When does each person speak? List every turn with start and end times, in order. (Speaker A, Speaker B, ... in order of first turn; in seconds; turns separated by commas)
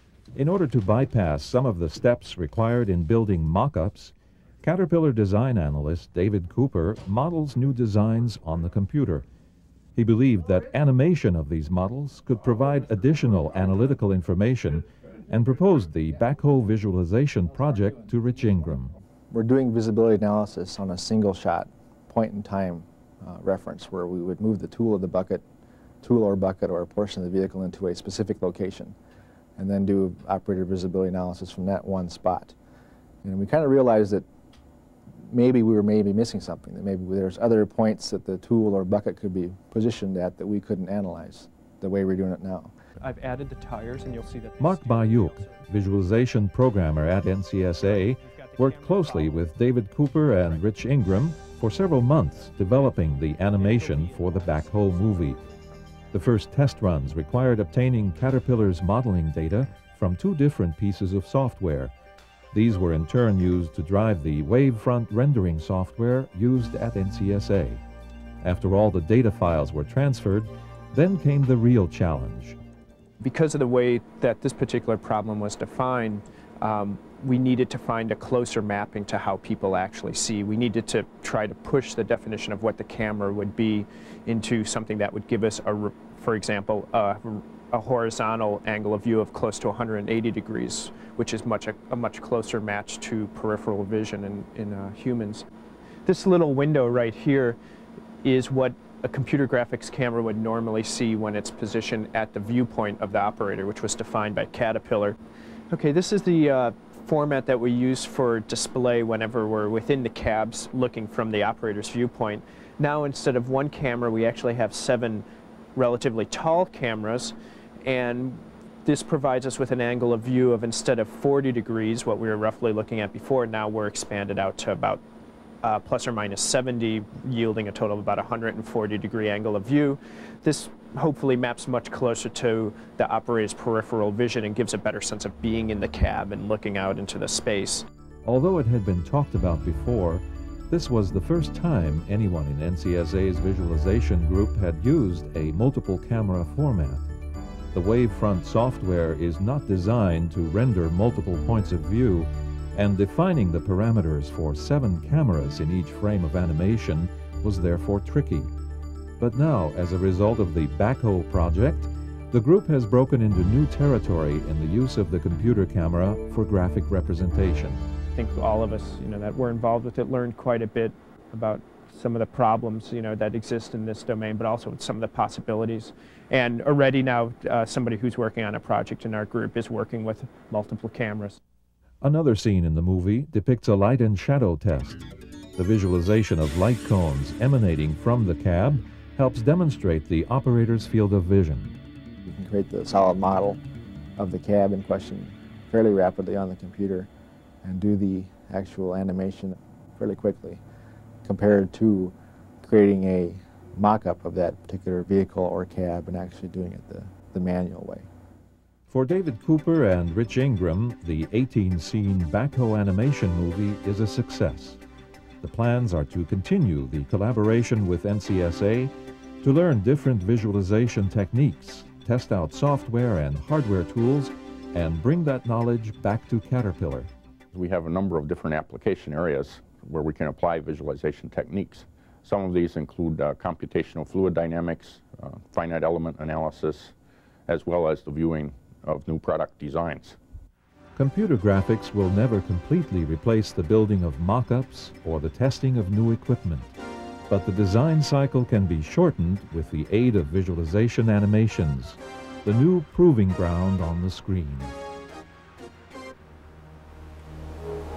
Speaker A: 0.3-9.2, Speaker A: 9.9-18.9, Speaker B: 19.3-25.4, Speaker B: 26.0-28.9, Speaker B: 29.6-32.5, Speaker B: 33.2-34.3, Speaker B: 35.2-42.7, Speaker C: 43.0-45.6, Speaker A: 44.6-55.4, Speaker C: 47.8-49.4, Speaker A: 56.1-61.9, Speaker A: 62.5-67.8, Speaker A: 68.4-72.6, Speaker C: 73.2-95.5, Speaker C: 96.0-97.6, Speaker C: 98.2-105.2, Speaker C: 105.7-125.0, Speaker C: 125.6-137.9, Speaker A: 138.2-147.1, Speaker A: 147.7-158.5, Speaker A: 159.2-167.8, Speaker C: 168.1-181.4, Speaker A: 182.0-185.0, Speaker A: 185.6-191.7, Speaker B: 192.2-193.6, Speaker B: 194.2-197.1, Speaker B: 197.6-200.6, Speaker B: 201.2-208.1, Speaker A: 208.9-214.8, Speaker A: 215.4-227.1, Speaker D: 227.5-236.9, Speaker D: 237.5-240.2, Speaker A: 240.9-246.7, Speaker A: 247.3-254.7